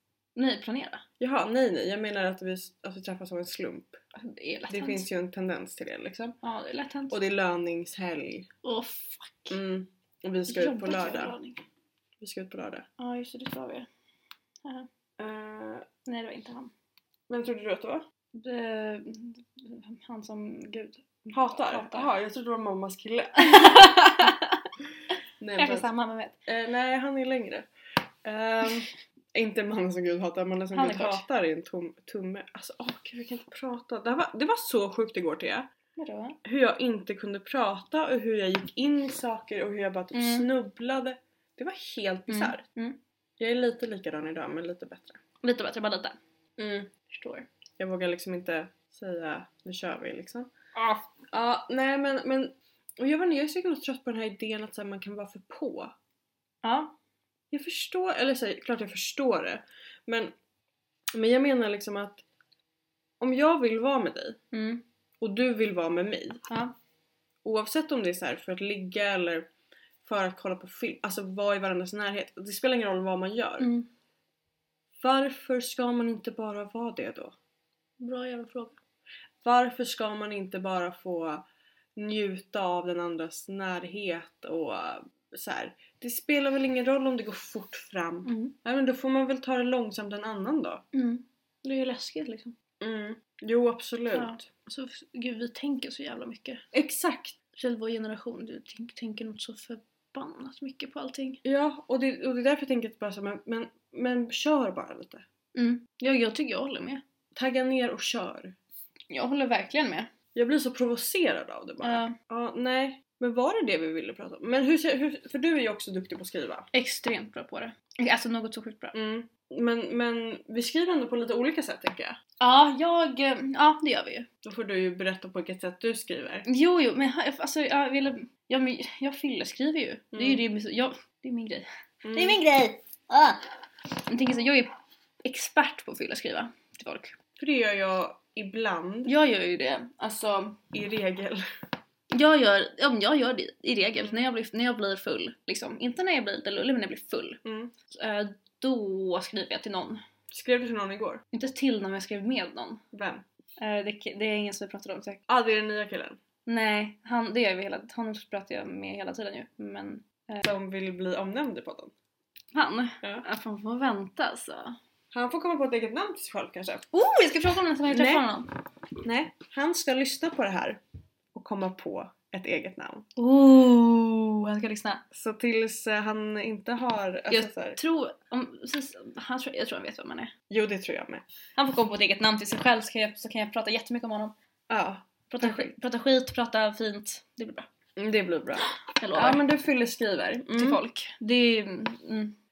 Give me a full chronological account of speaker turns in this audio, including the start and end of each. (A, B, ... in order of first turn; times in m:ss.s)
0:00.3-0:01.0 A
0:01.2-0:04.0 B
0:04.1-0:05.0 A
0:04.7-0:06.4 B
0:06.4-0:07.1 A
0:07.1-0:08.5 B
0:08.6-0:09.6 A
0:09.5-0:11.4 B
0:10.5-0:11.6 A
0:12.2-0:12.8 B
0:13.0-0:13.9 A
0:15.2-0:15.9 B
0:16.0-0:16.7 A
0:17.3-0:18.0 B
0:18.3-0:22.1 A
0:21.3-0:24.0 B
0:23.4-0:24.6 A
0:25.4-0:25.9 B
0:25.6-0:26.3 A
0:26.4-0:27.7 B
0:28.2-0:35.7 B
0:30.7-0:31.2 A
0:35.9-0:36.4 A
0:36.4-0:42.6 B
0:40.1-0:40.5 A
0:42.3-0:43.0 A
0:43.4-0:45.2 B
0:45.4-0:47.5 A
0:47.8-0:50.5 B
0:50.7-0:51.1 A
0:51.3-0:55.9 B
0:56.6-0:56.9 A
0:57.5-1:00.3 B
1:01.1-1:02.2 B
1:03.2-1:04.4 B
1:04.5-1:04.8 A
1:05.2-1:06.4 B
1:06.5-1:06.7 A
1:07.4-1:09.5 B
1:10.0-1:13.7 B
1:13.6-1:13.9 A
1:15.0-1:17.3 B
1:18.0-1:18.8 A
1:19.4-1:21.4 B
1:22.0-1:30.8 B
1:28.2-1:28.5 A
1:30.9-1:32.5 A
1:32.8-1:34.5 B
1:34.1-1:36.6 A
1:36.7-1:37.4 B
1:37.5-1:41.4 A
1:41.4-1:45.2 B
1:45.5-1:47.0 A
1:47.4-1:48.6 B
1:49.1-1:50.1 A
1:50.3-1:56.7 B
1:51.8-1:52.1 A
1:56.7-1:58.9 A
1:58.9-2:02.2 B
2:02.4-2:04.3 A
2:04.4-2:06.4 B
2:06.4-2:13.4 A
2:10.1-2:10.4 B
2:12.0-2:12.4 B
2:14.0-2:14.7 A
2:15.2-2:17.1 A
2:17.4-2:19.1 B
2:19.0-2:20.6 A
2:20.7-2:21.4 B
2:22.1-2:30.0 A
2:27.4-2:27.7 B
2:30.3-2:31.2 B
2:31.3-2:32.8 A
2:32.9-2:33.2 B
2:33.6-2:35.2 A
2:35.3-2:36.2 B
2:36.4-2:40.4 A
2:40.4-2:41.9 B
2:42.5-2:44.8 A
2:45.1-2:46.9 B
2:46.9-2:48.5 A
2:47.9-2:48.2 B
2:49.0-2:50.8 B
2:51.3-2:53.1 B
2:53.2-2:55.0 A
2:55.1-2:57.8 B
2:57.3-3:00.3 A
3:00.5-3:01.2 B
3:01.6-3:04.3 A
3:04.7-3:05.7 B
3:05.3-3:07.7 A
3:08.0-3:10.8 B
3:08.9-3:09.4 A
3:10.6-3:12.4 A